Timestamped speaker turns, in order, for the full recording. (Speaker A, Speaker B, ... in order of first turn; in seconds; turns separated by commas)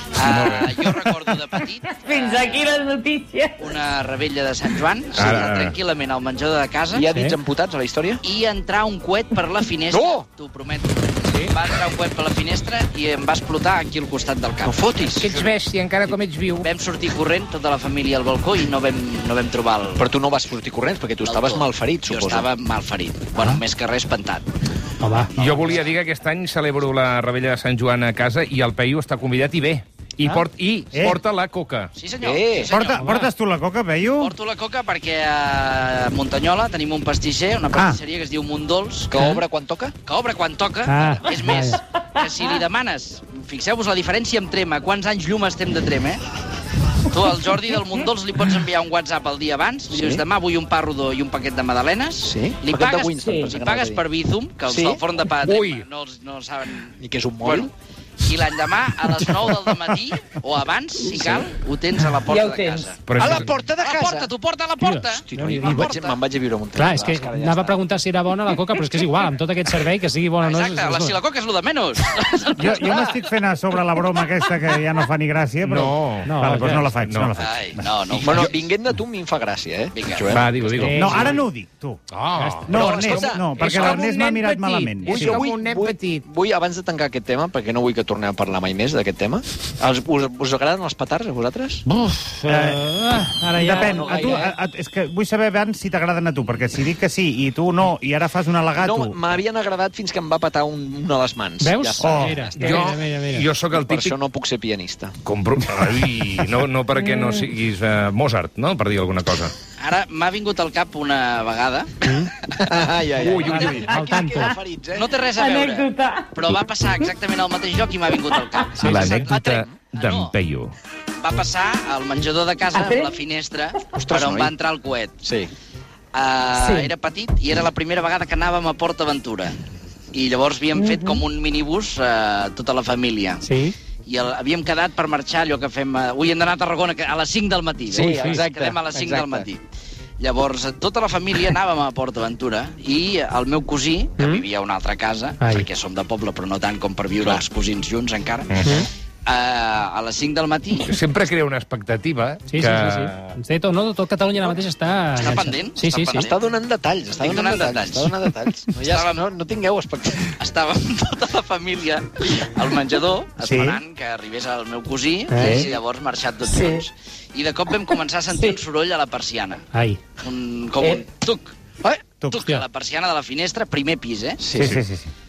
Speaker A: 0.1-2.9, Speaker B: 0.3-0.8, Speaker C: 2.0-3.7, Speaker A: 3.6-7.0, Speaker D: 5.2-5.8, Speaker E: 6.9-8.2, Speaker F: 7.1-7.3, Speaker A: 8.2-15.4, Speaker E: 9.9-10.2, Speaker F: 11.3-11.5, Speaker E: 14.6-15.3, Speaker D: 15.2-16.7, Speaker A: 16.6-20.1, Speaker E: 20.0-22.5, Speaker A: 21.2-24.5, Speaker F: 25.0-25.3, Speaker A: 25.1-25.8, Speaker D: 25.4-31.9, Speaker B: 30.2-31.2, Speaker A: 31.9-33.1, Speaker E: 32.2-32.7, Speaker B: 32.7-34.3, Speaker F: 33.0-33.3, Speaker A: 34.2-39.1, Speaker B: 37.7-38.0, Speaker E: 39.1-39.9, Speaker A: 40.0-46.2, Speaker F: 40.9-41.8, Speaker A: 47.1-57.7, Speaker E: 49.9-50.2, Speaker E: 52.2-54.0, Speaker C: 53.2-53.5, Speaker E: 54.6-55.0, Speaker D: 55.4-55.8, Speaker E: 57.0-57.7, Speaker A: 58.2-63.0, Speaker C: 62.2-63.0, Speaker D: 63.0-63.5, Speaker E: 63.1-64.3, Speaker A: 63.7-66.2, Speaker F: 64.8-65.9, Speaker E: 65.2-67.8, Speaker F: 66.7-71.2, Speaker A: 70.4-73.2, Speaker B: 72.6-78.4, Speaker E: 72.6-73.1, Speaker D: 75.6-76.3, Speaker F: 76.2-76.9, Speaker D: 77.0-77.3, Speaker A: 77.4-78.5, Speaker E: 78.2-80.9, Speaker A: 79.9-80.4, Speaker D: 80.3-81.2, Speaker F: 80.8-81.4, Speaker B: 80.9-82.0, Speaker D: 82.1-86.2, Speaker F: 82.3-82.8, Speaker B: 82.7-85.5, Speaker E: 82.7-84.1, Speaker E: 85.0-91.8, Speaker F: 91.8-94.1, Speaker B: 92.5-99.2, Speaker E: 93.8-94.5, Speaker E: 98.7-102.8, Speaker F: 101.6-103.5, Speaker B: 102.0-102.5, Speaker D: 102.5-104.2, Speaker E: 103.7-105.2, Speaker D: 105.2-109.5, Speaker A: 109.8-112.0, Speaker F: 112.0-112.3, Speaker E: 112.5-115.1, Speaker D: 113.2-114.0, Speaker F: 113.5-114.5, Speaker A: 114.9-120.3, Speaker C: 115.3-116.3, Speaker D: 118.8-120.7, Speaker E: 118.8-119.7, Speaker A: 121.2-125.2, Speaker C: 122.7-123.2, Speaker E: 123.9-124.5, Speaker E: 125.2-125.5, Speaker A: 126.1-129.5, Speaker C: 126.5-126.9, Speaker A: 130.1-133.4, Speaker C: 130.7-131.2, Speaker F: 133.4-133.7, Speaker A: 134.1-139.6, Speaker E: 137.9-139.5, Speaker F: 138.0-138.4, Speaker A: 140.2-148.7, Speaker F: 144.2-144.4, Speaker F: 145.4-145.7, Speaker A: 149.2-150.9, Speaker D: 150.9-153.3, Speaker F: 152.5-156.3, Speaker A: 155.2-156.3, Speaker E: 156.2-160.3, Speaker A: 157.1-158.2, Speaker A: 158.8-159.2, Speaker A: 160.3-169.7, Speaker B: 163.4-163.8, Speaker F: 165.3-165.6, Speaker B: 165.4-165.7, Speaker C: 166.5-166.8, Speaker C: 168.3-168.6, Speaker F: 169.7-170.0, Speaker A: 170.2-171.5, Speaker A: 172.3-174.4, Speaker E: 174.4-174.8, Speaker B: 174.6-175.1